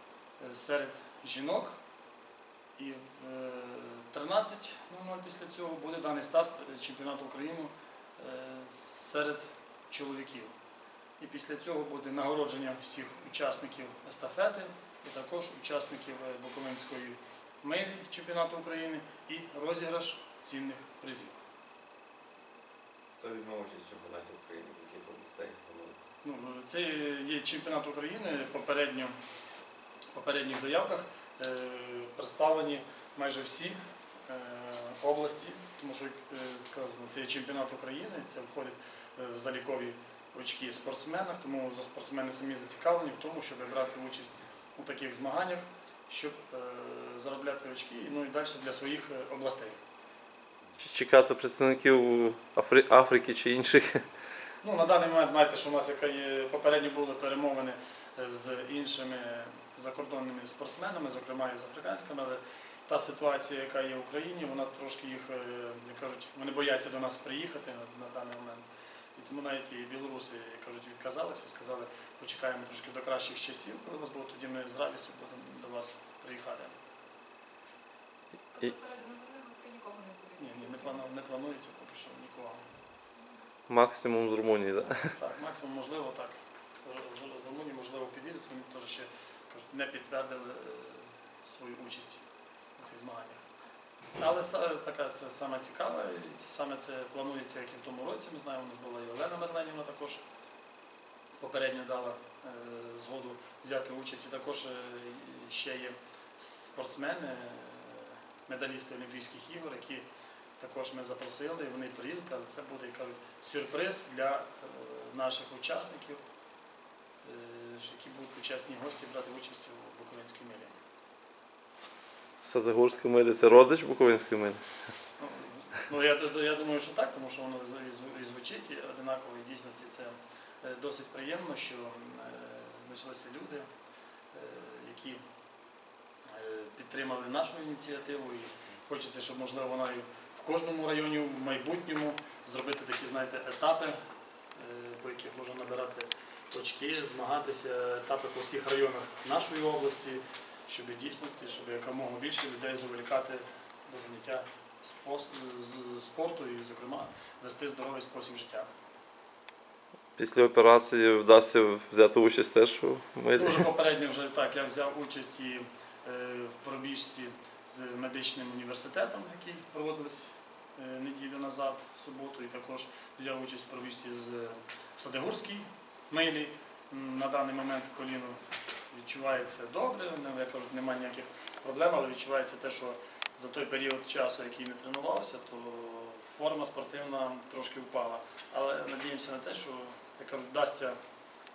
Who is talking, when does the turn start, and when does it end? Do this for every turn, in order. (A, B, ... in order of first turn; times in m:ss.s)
0:00.4-0:01.8 A
0:02.8-0:10.5 A
0:11.2-0:21.4 A
0:23.2-0:26.0 B
0:26.2-0:29.1 A
0:30.1-0:49.8 A
0:50.8-0:54.0 C
0:54.6-1:08.6 A
1:09.2-1:16.7 A
1:18.5-1:20.7 D
1:20.4-1:22.6 A
1:23.7-1:25.1 C
1:25.2-1:32.2 A
1:32.8-1:33.4 A
1:34.2-1:40.2 A
1:41.4-1:50.0 A
1:50.6-1:56.2 A
1:57.2-2:00.7 A
2:02.4-2:04.6 C
2:05.2-2:13.6 A
2:14.3-2:15.2 A
2:16.3-2:24.0 A
2:24.5-2:38.7 A
2:40.2-2:43.6 C
2:43.3-2:58.4 A
2:58.9-3:11.0 A